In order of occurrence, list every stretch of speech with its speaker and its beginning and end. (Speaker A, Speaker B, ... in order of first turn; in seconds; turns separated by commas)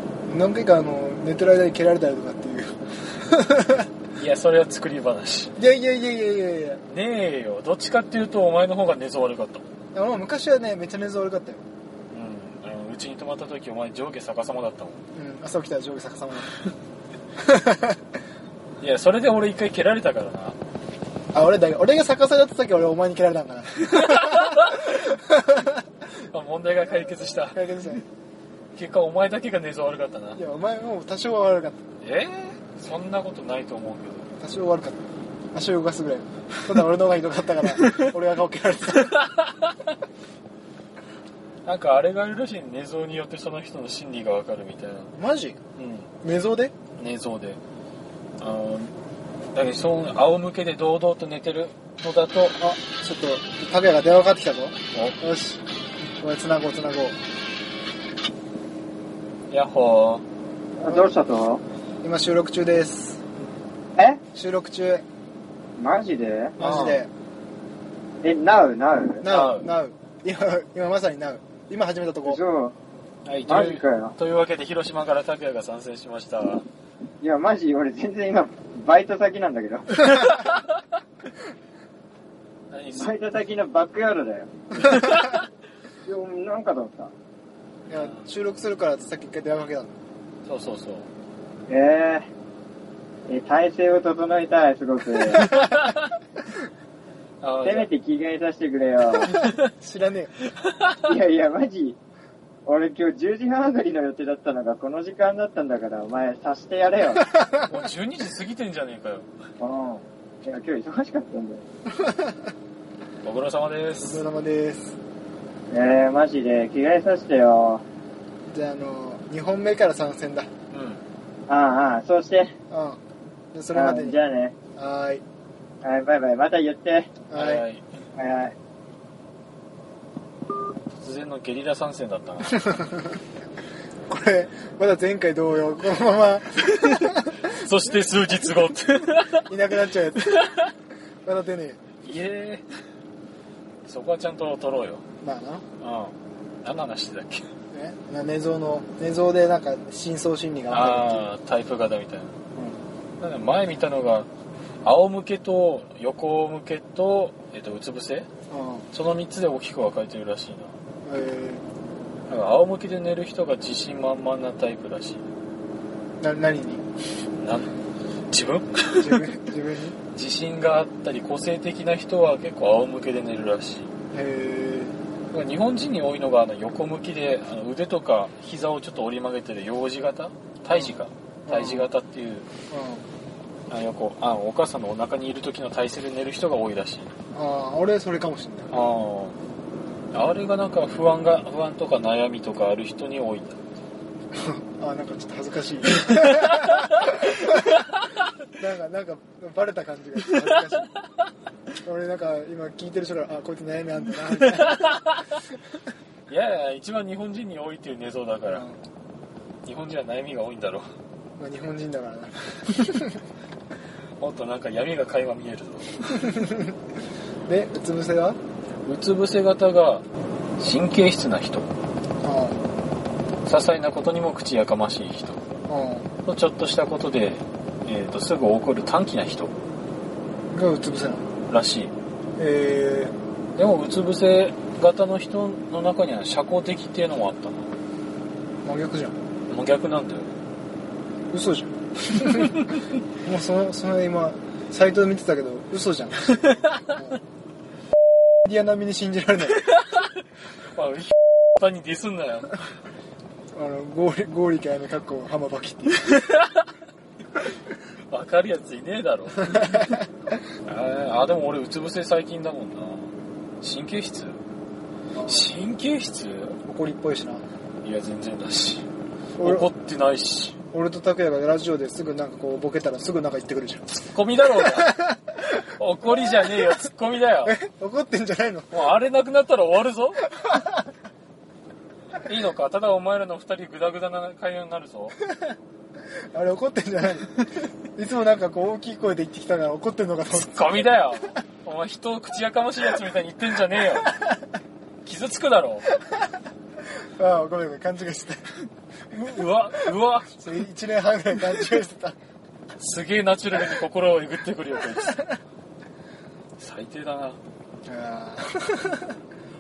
Speaker A: 0.3-3.9, Speaker B: 4.2-5.5, Speaker A: 5.6-6.8, Speaker B: 6.9-9.7, Speaker A: 9.9-11.6, Speaker B: 12.1-15.0, Speaker A: 15.1-16.5, Speaker A: 17.4-18.0, Speaker B: 18.8-20.6, Speaker A: 21.3-25.8, Speaker B: 23.9-24.9, Speaker B: 26.1-27.7, Speaker A: 27.5-28.1, Speaker B: 28.8-30.4, Speaker A: 30.3-31.8, Speaker B: 32.0-34.3, Speaker A: 34.4-35.0, Speaker A: 35.5-39.3, Speaker B: 41.6-45.1, Speaker A: 45.1-45.6, Speaker B: 45.8-46.1, Speaker A: 46.2-46.7, Speaker B: 47.0-47.6, Speaker B: 48.4-48.9, Speaker B: 49.5-52.6, Speaker A: 52.6-55.6, Speaker B: 54.9-55.2, Speaker A: 56.2-57.2, Speaker B: 59.5-60.2, Speaker C: 60.8-61.6, Speaker A: 60.8-61.1, Speaker A: 62.0-63.2, Speaker C: 64.0-64.2, Speaker A: 64.3-65.0, Speaker C: 65.8-66.6, Speaker A: 66.6-67.1, Speaker B: 66.6-67.0, Speaker C: 68.2-69.3, Speaker A: 69.2-72.4, Speaker B: 69.3-69.7, Speaker C: 72.2-72.8, Speaker B: 73.2-76.7, Speaker C: 73.5-74.2, Speaker C: 77.2-80.2, Speaker B: 80.0-80.6, Speaker B: 82.7-83.2, Speaker C: 83.0-85.0, Speaker B: 84.8-85.4, Speaker A: 85.0-85.2, Speaker C: 86.0-87.1, Speaker A: 87.9-89.9, Speaker B: 87.9-88.2, Speaker B: 90.5-91.1, Speaker C: 91.7-92.3, Speaker C: 93.3-95.5, Speaker B: 95.4-96.0, Speaker B: 97.4-97.9, Speaker C: 97.6-99.3, Speaker B: 99.2-99.5, Speaker A: 99.2-100.4, Speaker C: 101.0-102.0, Speaker C: 102.7-107.3, Speaker B: 107.6-109.3, Speaker C: 109.6-111.6, Speaker A: 112.0-112.3, Speaker B: 113.2-114.2, Speaker A: 114.0-115.0, Speaker C: 115.7-117.8, Speaker A: 118.5-120.5, Speaker B: 120.7-121.0, Speaker C: 121.5-122.5, Speaker A: 122.7-123.0, Speaker A: 123.5-124.2, Speaker C: 123.8-124.5, Speaker A: 124.8-125.2, Speaker C: 125.8-127.2, Speaker A: 127.3-127.7, Speaker B: 127.3-127.8, Speaker C: 128.2-128.6, Speaker B: 131.0-132.7, Speaker A: 132.6-133.2, Speaker A: 134.1-137.5, Speaker B: 137.4-139.4, Speaker A: 139.4-140.5, Speaker A: 141.2-141.8, Speaker B: 142.0-142.6, Speaker B: 143.8-145.0, Speaker A: 145.2-145.7, Speaker B: 145.8-147.5, Speaker A: 147.7-151.3, Speaker B: 150.7-152.4, Speaker B: 153.2-154.3, Speaker B: 154.8-158.3, Speaker A: 158.5-158.9, Speaker B: 158.9-160.8, Speaker A: 161.1-161.6, Speaker B: 162.3-165.2, Speaker A: 166.2-166.9, Speaker B: 167.4-167.7, Speaker B: 168.3-169.3, Speaker A: 168.9-170.0, Speaker B: 170.1-173.9, Speaker A: 174.1-175.0, Speaker B: 175.3-182.5, Speaker A: 180.7-181.9, Speaker A: 182.7-183.1, Speaker B: 183.7-187.2, Speaker A: 187.3-188.8, Speaker B: 188.7-189.4, Speaker B: 190.1-193.6, Speaker A: 194.3-197.9, Speaker B: 196.3-197.1, Speaker A: 198.6-200.9, Speaker A: 201.8-205.0, Speaker B: 204.4-205.2, Speaker B: 206.3-208.7, Speaker A: 208.5-208.8, Speaker B: 209.7-210.9, Speaker A: 211.4-213.1, Speaker B: 214.2-216.3, Speaker A: 216.1-216.8, Speaker A: 217.5-218.4, Speaker B: 218.8-220.1, Speaker B: 220.6-221.7, Speaker A: 222.2-222.7, Speaker B: 223.4-225.4, Speaker A: 225.7-226.1, Speaker B: 226.3-229.6, Speaker A: 230.5-231.2, Speaker B: 231.5-231.9, Speaker A: 232.4-233.2, Speaker B: 233.6-237.8, Speaker A: 238.6-239.2, Speaker B: 239.5-240.3, Speaker A: 241.3-242.7, Speaker A: 243.2-247.2, Speaker A: 248.4-249.6, Speaker B: 250.7-252.6, Speaker A: 253.5-256.1, Speaker B: 256.1-256.4, Speaker B: 258.1-260.0, Speaker B: 260.6-264.4, Speaker A: 265.1-265.5, Speaker B: 265.3-266.6, Speaker A: 266.6-267.4, Speaker B: 267.8-268.9, Speaker A: 269.4-269.7, Speaker B: 269.4-270.6, Speaker A: 270.7-273.9, Speaker B: 273.9-277.6, Speaker A: 274.6-275.2, Speaker A: 277.4-278.9, Speaker B: 278.7-280.5, Speaker B: 282.1-285.2, Speaker A: 286.3-291.2, Speaker B: 290.3-294.2, Speaker B: 295.1-295.9, Speaker A: 297.2-298.5, Speaker B: 299.1-300.4, Speaker A: 300.4-302.2, Speaker B: 302.8-305.2, Speaker B: 306.6-307.4, Speaker A: 307.9-309.2